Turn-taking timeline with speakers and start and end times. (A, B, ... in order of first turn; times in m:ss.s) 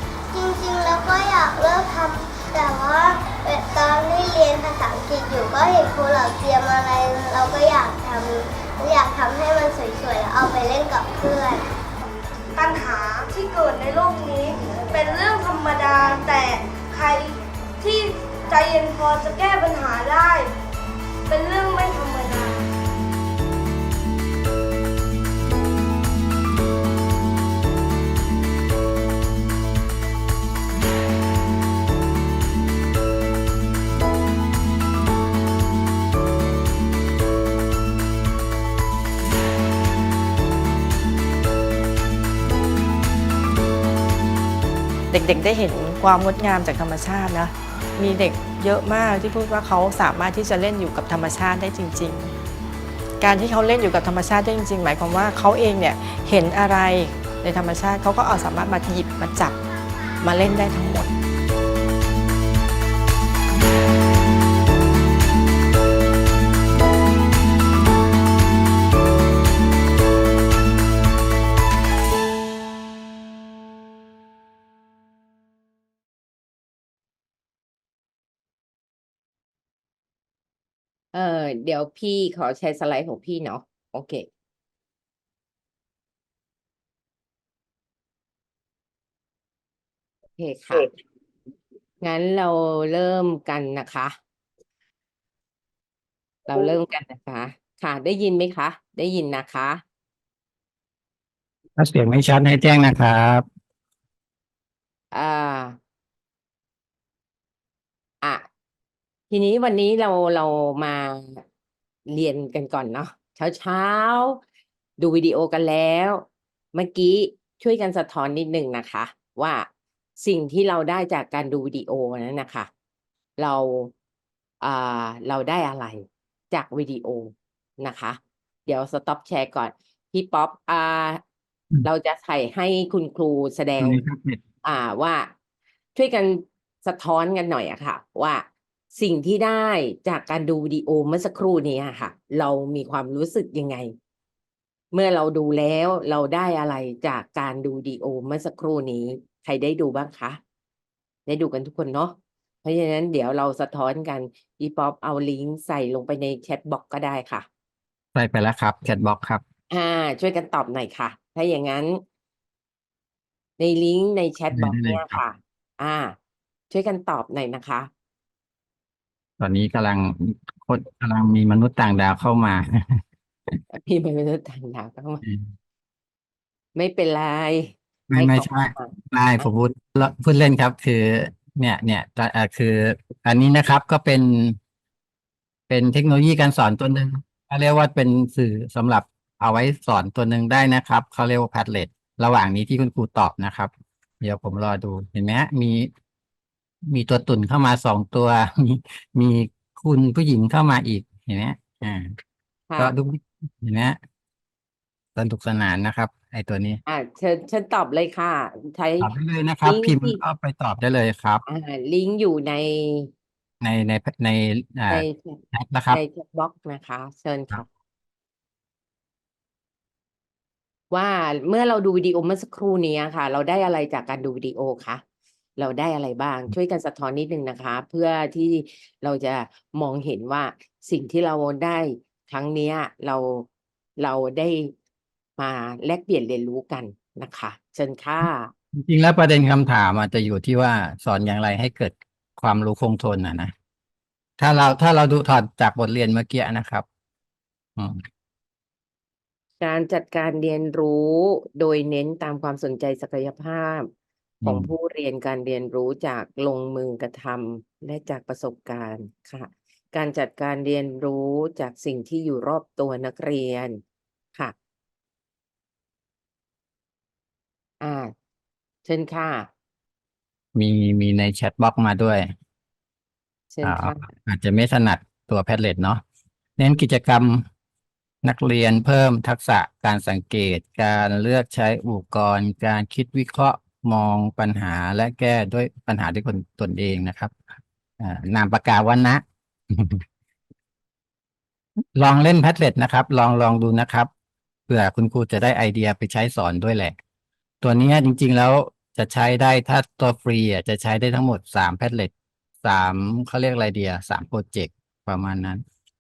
0:00.3-0:11.6 A
0:12.5-0:20.5 B
0:21.3-0:22.7 B
0:45.1-0:52.3 C
0:53.2-0:59.6 C
1:00.2-1:01.1 C
1:21.1-1:24.3 D
1:30.4-1:30.9 D
1:32.0-1:34.2 D
1:36.5-1:39.8 D
1:41.8-1:43.4 E
1:45.1-1:45.8 D
1:48.2-1:48.5 D
1:49.3-1:51.4 D
1:52.1-1:54.4 D
1:55.0-1:59.7 D
2:00.2-2:02.7 D
2:03.4-2:03.9 D
2:04.6-2:11.2 D
2:11.8-2:14.0 D
2:13.8-2:14.4 E
2:14.6-2:15.3 D
2:16.0-2:23.9 D
2:24.9-2:30.4 D
2:31.3-2:37.5 D
2:38.2-2:39.4 E
2:39.7-2:42.0 D
2:43.6-2:46.2 D
2:44.5-2:45.2 E
2:46.7-2:47.9 D
2:49.4-2:53.0 E
2:53.7-2:55.2 D
2:55.2-2:55.5 E
2:56.8-2:59.5 D
2:58.1-3:04.6 E
3:05.7-3:15.9 E
3:16.9-3:22.2 E
3:22.7-3:23.0 D
3:22.8-3:24.0 E
3:25.2-3:26.8 E
3:26.9-3:29.1 D
3:29.0-3:31.4 E
3:29.6-3:30.2 D
3:31.5-3:33.1 D
3:33.6-3:36.0 E
3:34.9-3:37.6 D
3:40.9-3:45.0 D
3:45.6-3:53.5 D
3:54.0-3:54.7 D
3:55.4-3:58.5 D
3:58.7-4:03.5 E
4:04.4-4:06.9 E
4:07.8-4:08.0 E
4:09.6-4:13.9 D
4:14.4-4:14.7 E
4:14.4-4:23.8 D
4:27.8-4:28.1 D
4:28.8-4:29.5 D
4:30.6-4:32.3 E
4:33.5-4:34.0 D
4:33.6-4:36.0 E
4:36.6-4:37.4 E
4:38.2-4:47.3 E
4:48.0-4:50.0 E
4:52.0-4:54.1 E
4:54.7-4:57.0 E
4:57.6-5:02.1 E
5:02.6-5:05.6 E